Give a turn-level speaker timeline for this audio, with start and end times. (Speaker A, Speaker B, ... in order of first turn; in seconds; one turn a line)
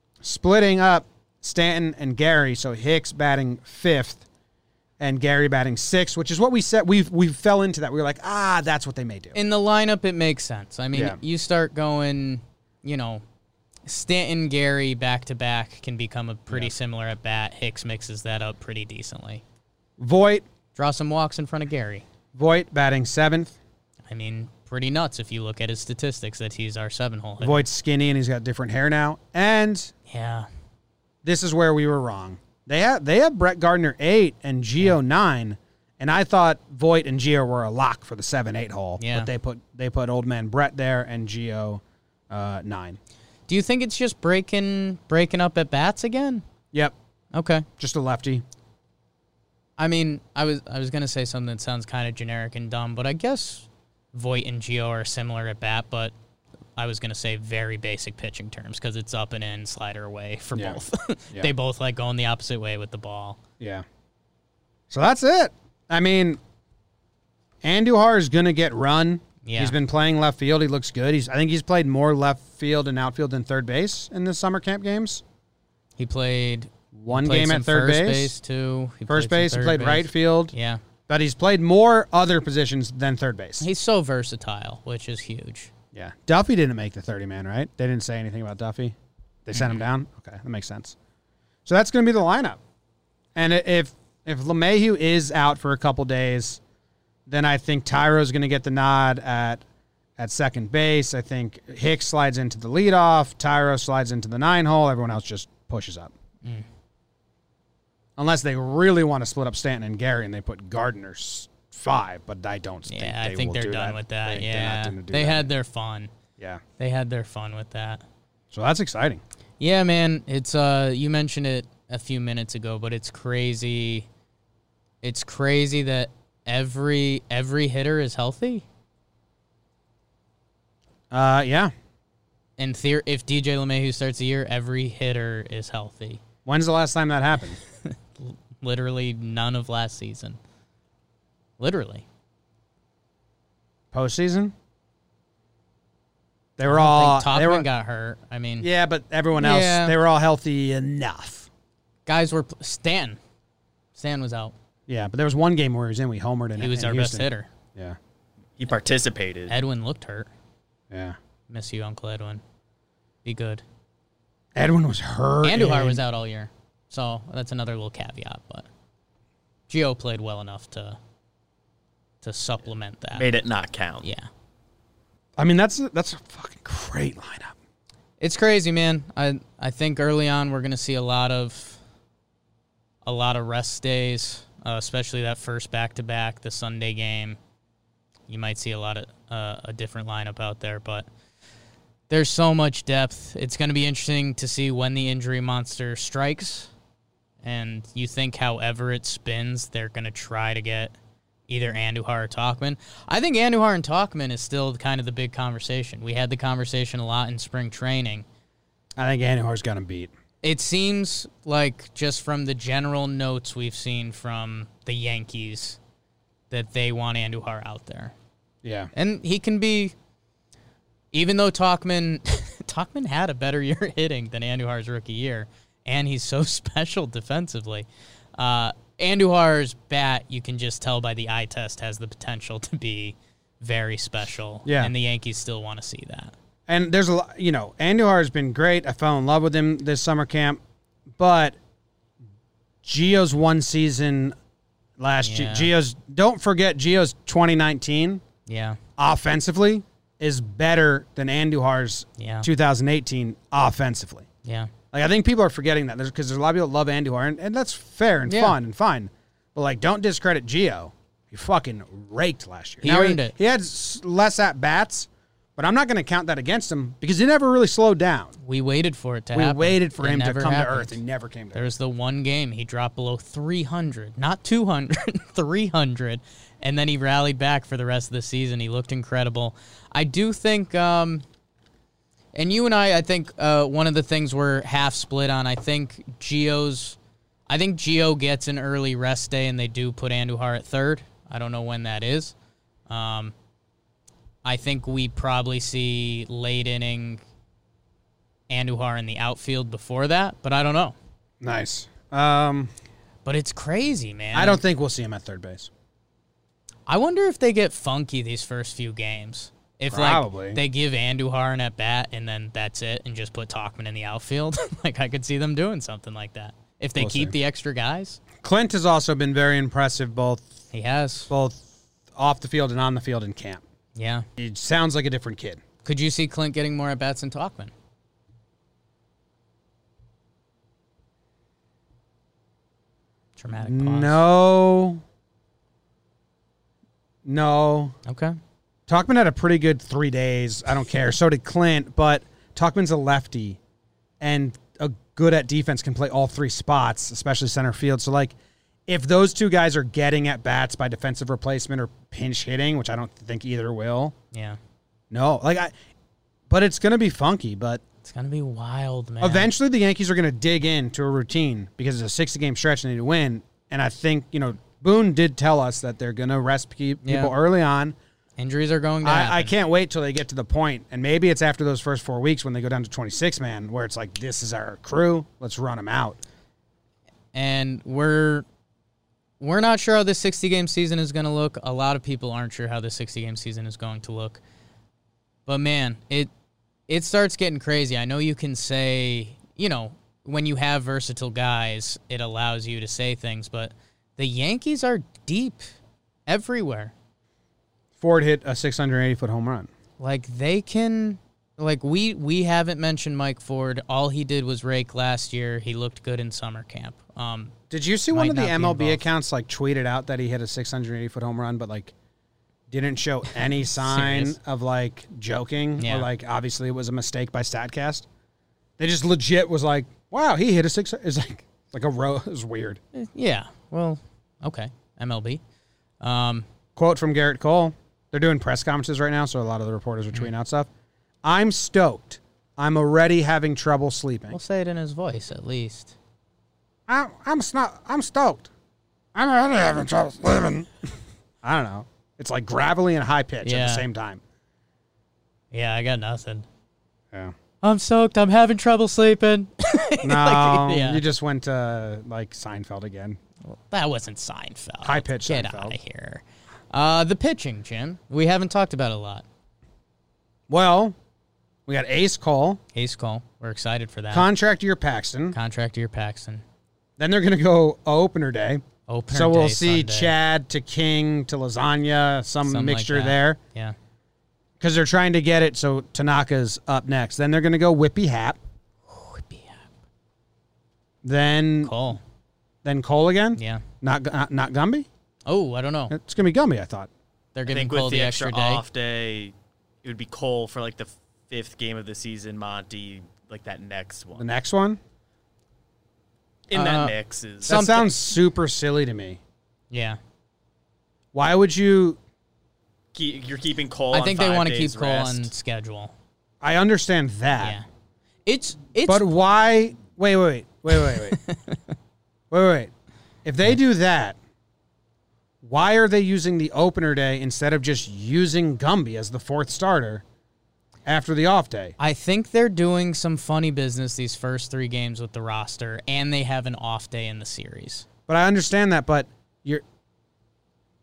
Speaker A: 0.2-4.2
Speaker A: 5.0-9.3
Speaker B: 9.3-13.2
Speaker A: 10.9-11.2
Speaker B: 13.8-19.4
Speaker A: 20.0-20.4
Speaker B: 20.7-22.1
Speaker A: 22.3-23.6
Speaker B: 24.1-27.6
Speaker A: 27.4-29.9
Speaker B: 30.1-30.5
Speaker A: 31.2-43.0
Speaker B: 39.0-39.3
Speaker B: 43.5-46.4
Speaker B: 47.3-47.6
Speaker A: 47.8-48.4
Speaker B: 49.8-56.1
Speaker B: 56.8-63.4
Speaker A: 63.6-63.8
Speaker A: 64.9-66.4
Speaker A: 67.6-75.2
Speaker B: 69.4-69.8
Speaker B: 76.0-80.8
Speaker A: 76.9-78.3
Speaker A: 79.1-80.5
Speaker A: 81.1-83.7
Speaker B: 83.6-85.7
Speaker A: 85.9-88.9
Speaker A: 89.5-90.9
Speaker B: 89.5-89.8
Speaker A: 91.7-92.6
Speaker A: 93.3-96.6
Speaker A: 97.3-99.6
Speaker A: 100.2-106.1
Speaker A: 108.2-115.5
Speaker B: 112.9-116.1
Speaker B: 116.8-118.0
Speaker A: 118.5-119.2
Speaker B: 119.6-124.1
Speaker B: 125.0-128.6
Speaker A: 131.1-131.7
Speaker B: 132.6-136.2
Speaker A: 136.4-137.6
Speaker B: 137.8-140.4
Speaker B: 141.6-142.0
Speaker A: 143.9-144.5
Speaker A: 146.6-147.7
Speaker B: 146.7-148.7
Speaker A: 148.6-151.5
Speaker B: 149.3-149.9
Speaker B: 152.1-153.2
Speaker B: 153.9-154.5
Speaker A: 154.9-158.0
Speaker B: 156.6-157.5
Speaker C: 158.6-159.5
Speaker B: 159.5-160.3
Speaker A: 160.9-161.2
Speaker B: 161.5-162.4
Speaker B: 163.2-163.6
Speaker A: 164.5-166.0
Speaker B: 165.4-168.7
Speaker B: 169.7-171.0
Speaker B: 172.2-173.2
Speaker C: 173.1-174.0
Speaker B: 174.0-174.3
Speaker A: 175.4-177.5
Speaker B: 178.2-181.8
Speaker B: 183.0-187.4
Speaker B: 188.3-191.1
Speaker B: 192.1-196.7
Speaker B: 197.4-200.9
Speaker B: 201.5-208.2
Speaker A: 208.9-210.1
Speaker B: 210.4-215.8
Speaker B: 216.5-218.1
Speaker A: 218.6-218.9
Speaker B: 218.9-219.9
Speaker B: 221.1-236.3
Speaker A: 234.6-234.9
Speaker A: 236.7-240.6
Speaker A: 241.2-241.6
Speaker A: 242.8-244.3
Speaker A: 245.0-248.2
Speaker B: 245.2-245.7
Speaker B: 248.5-248.8
Speaker A: 249.0-254.3
Speaker B: 252.2-252.5
Speaker B: 254.4-254.7
Speaker A: 254.9-268.4
Speaker B: 258.3-258.6
Speaker B: 262.8-263.3
Speaker B: 268.4-271.0
Speaker A: 269.3-271.7
Speaker B: 271.5-281.2
Speaker B: 282.3-287.0
Speaker B: 287.5-292.3
Speaker B: 292.9-293.3
Speaker B: 294.4-297.2
Speaker B: 298.5-300.9
Speaker A: 301.4-302.7
Speaker B: 303.2-304.6
Speaker A: 304.3-305.7
Speaker B: 306.9-318.2
Speaker A: 309.9-310.6
Speaker A: 317.0-317.3
Speaker A: 318.4-320.5
Speaker B: 320.7-321.3
Speaker A: 321.3-323.6
Speaker B: 323.9-324.3
Speaker A: 324.4-325.6
Speaker B: 325.8-327.7
Speaker B: 333.4-334.2
Speaker A: 333.6-335.0
Speaker A: 337.2-337.9
Speaker B: 338.1-338.4
Speaker A: 338.9-343.6
Speaker A: 344.2-348.3
Speaker A: 348.9-354.1
Speaker B: 354.3-354.6
Speaker A: 355.1-355.7
Speaker A: 356.5-357.8
Speaker B: 358.0-359.5
Speaker A: 359.2-367.9
Speaker B: 367.0-367.3
Speaker B: 368.4-369.5
Speaker A: 369.0-376.2
Speaker B: 377.3-378.4
Speaker B: 379.4-384.4
Speaker B: 385.4-386.3
Speaker B: 386.9-395.7
Speaker B: 396.3-396.9
Speaker A: 398.0-399.7
Speaker B: 400.0-407.5
Speaker A: 407.7-411.9
Speaker B: 408.1-409.0
Speaker A: 412.7-418.1
Speaker B: 413.6-414.4
Speaker B: 415.8-416.1
Speaker A: 418.8-422.8
Speaker B: 422.9-425.4
Speaker B: 426.0-426.4
Speaker A: 426.8-430.7
Speaker A: 431.2-434.4
Speaker B: 434.3-435.9
Speaker A: 436.9-438.5
Speaker A: 439.1-440.7
Speaker A: 441.4-444.2
Speaker B: 443.4-443.9
Speaker B: 445.5-446.5
Speaker B: 447.6-451.0
Speaker A: 450.0-453.2
Speaker B: 453.4-459.2
Speaker A: 454.8-455.8
Speaker A: 460.5-460.9
Speaker A: 461.7-462.6
Speaker B: 462.7-464.3
Speaker A: 464.1-465.4
Speaker B: 465.3-466.4
Speaker A: 467.0-473.4
Speaker B: 468.9-470.1
Speaker B: 472.4-473.8
Speaker A: 474.6-478.4
Speaker B: 478.9-479.7
Speaker A: 481.0-481.7
Speaker B: 481.6-482.0
Speaker A: 482.6-484.9
Speaker B: 483.4-483.6
Speaker B: 485.3-485.9
Speaker A: 485.9-486.9
Speaker B: 487.3-488.6
Speaker C: 487.5-494.3
Speaker A: 494.1-494.8
Speaker C: 496.5-497.6
Speaker B: 496.5-497.9
Speaker A: 497.5-499.2
Speaker B: 499.7-500.0
Speaker A: 501.1-502.0
Speaker C: 502.9-505.3
Speaker B: 503.9-505.9
Speaker A: 506.4-507.6
Speaker B: 508.2-509.1
Speaker A: 508.9-511.2
Speaker B: 510.7-511.6
Speaker A: 512.3-512.7
Speaker A: 513.2-514.2
Speaker A: 515.4-520.0
Speaker A: 520.9-521.7
Speaker B: 521.8-527.9
Speaker A: 528.1-529.6